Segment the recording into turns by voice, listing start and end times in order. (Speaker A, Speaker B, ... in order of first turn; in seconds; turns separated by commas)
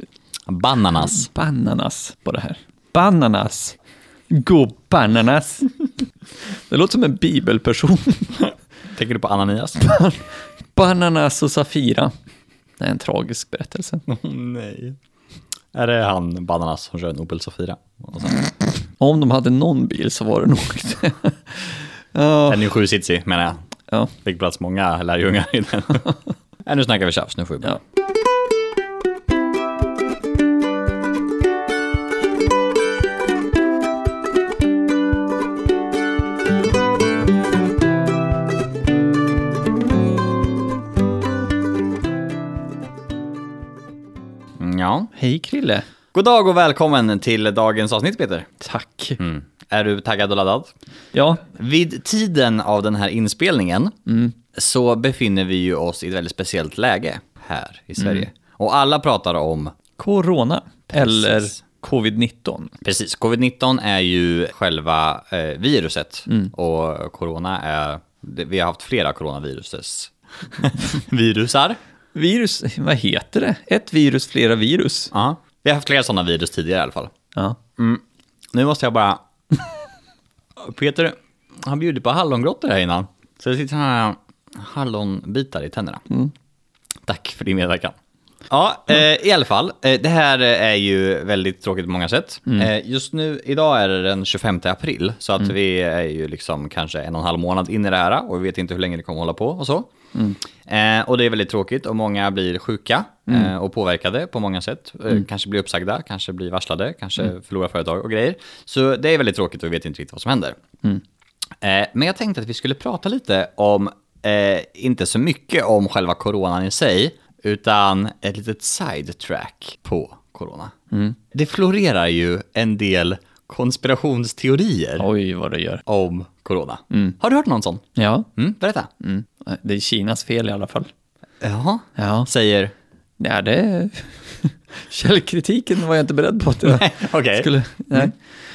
Speaker A: 0.5-1.3, Speaker B: 1.1-3.8, Speaker B: 4.3-5.7, Speaker B: 6.5-8.4, Speaker A: 8.9-9.8, Speaker B: 9.8-12.1, Speaker B: 12.8-14.0, Speaker A: 14.1-14.9, Speaker A: 15.7-18.4, Speaker B: 19.0-22.7, Speaker A: 22.5-23.6, Speaker A: 24.2-26.1, Speaker A: 26.6-27.8, Speaker A: 44.6-45.1, Speaker B: 45.1-45.9, Speaker A: 46.1-48.5, Speaker B: 48.6-49.2, Speaker A: 49.2-50.7, Speaker B: 51.1-51.4, Speaker A: 51.5-53.9, Speaker B: 54.1-54.3, Speaker A: 54.5-59.7, Speaker B: 60.0-62.7, Speaker A: 60.9-61.5, Speaker A: 62.8-71.8, Speaker B: 72.1-75.1, Speaker A: 75.1-77.1, Speaker A: 78.5-79.2, Speaker A: 80.6-86.0, Speaker A: 87.0-87.9, Speaker A: 88.5-99.9, Speaker A: 100.7-110.6, Speaker A: 111.6-120.7, Speaker B: 120.9-121.2, Speaker A: 121.3-125.1, Speaker B: 125.0-125.8, Speaker A: 125.8-127.8, Speaker B: 128.0-128.3, Speaker A: 128.4-128.9, Speaker B: 129.0-130.9, Speaker A: 131.4-132.7, Speaker B: 132.0-132.3, Speaker B: 133.2-138.2, Speaker A: 136.6-138.1